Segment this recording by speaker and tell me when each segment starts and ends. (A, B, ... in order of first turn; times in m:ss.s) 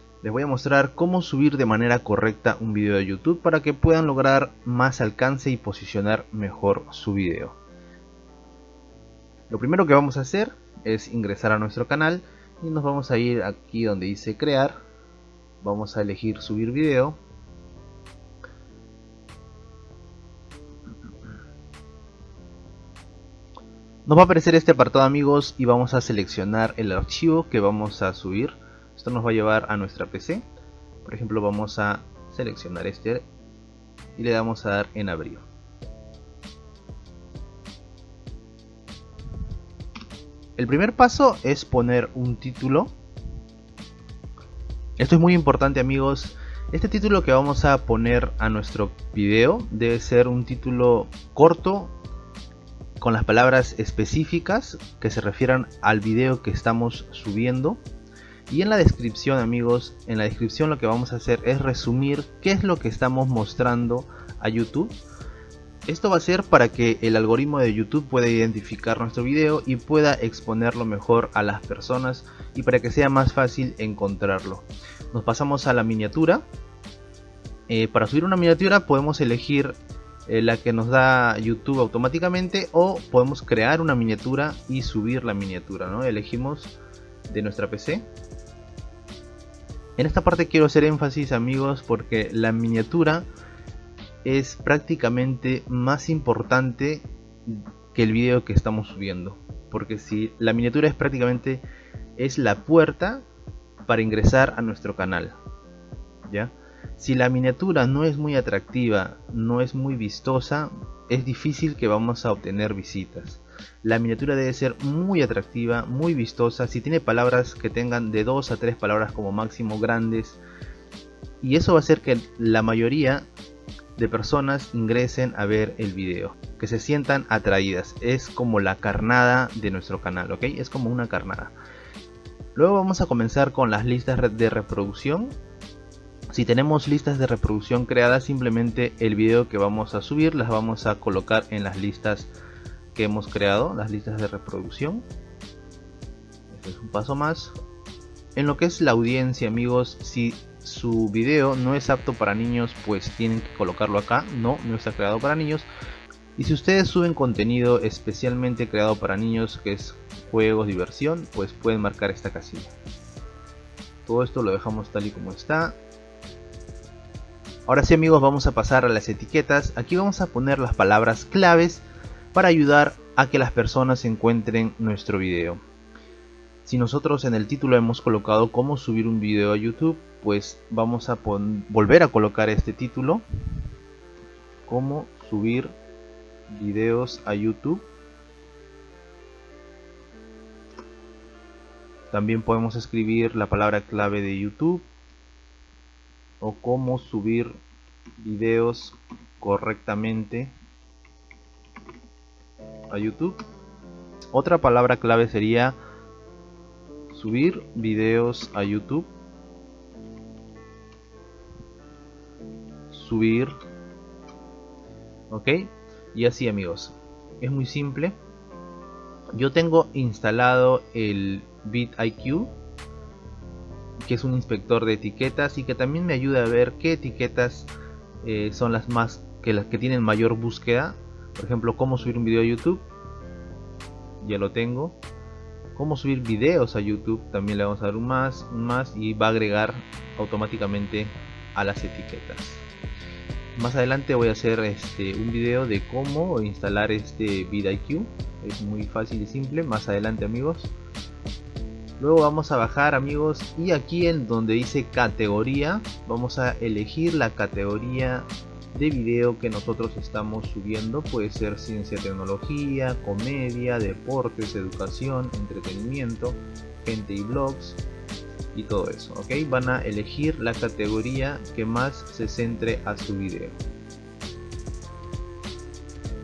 0:00.2-0:07.6 A
0:09.5-0:14.8 A
0:15.6-0:17.2 A
0:24.0-0:30.4 A
0:31.0-0:33.2 A
0:34.2-0:35.4 A
0:40.6-0:42.9 A
0:45.0-0:51.9 A
0:53.0-0:57.8 A
0:58.5-1:04.9 A
1:05.9-1:16.4 A
1:17.7-1:26.7 A
1:27.3-1:28.0 A
1:30.0-1:33.2 A
1:34.2-1:41.6 A
1:42.2-1:43.2 A
1:43.9-1:45.4 A
1:46.3-2:00.4 A
2:01.4-2:03.2 A
2:04.0-2:11.5 A
2:12.5-2:15.3 A
2:16.3-2:22.3 A
2:22.9-2:25.0 A
2:26.5-2:27.5 A
2:28.4-2:35.7 A
2:36.4-2:42.7 A
2:44.0-2:45.8 A
2:47.7-2:51.8 A
2:52.3-2:55.6 A
2:56.6-3:03.2 A
3:04.7-3:05.7 A
3:06.5-3:07.8 A
3:12.1-3:14.8 A
3:16.4-3:17.5 A
3:18.2-3:20.5 A
3:22.9-3:23.4 A
3:24.3-3:25.8 A
3:27.1-3:29.1 A
3:32.9-3:33.5 A
3:35.3-3:38.2 A
3:39.3-3:42.5 A
3:44.0-3:47.7 A
3:48.2-3:52.8 A
3:54.2-3:55.0 A
3:55.7-4:02.6 A
4:03.6-4:10.7 A
4:12.0-4:27.8 A
4:28.5-4:33.6 A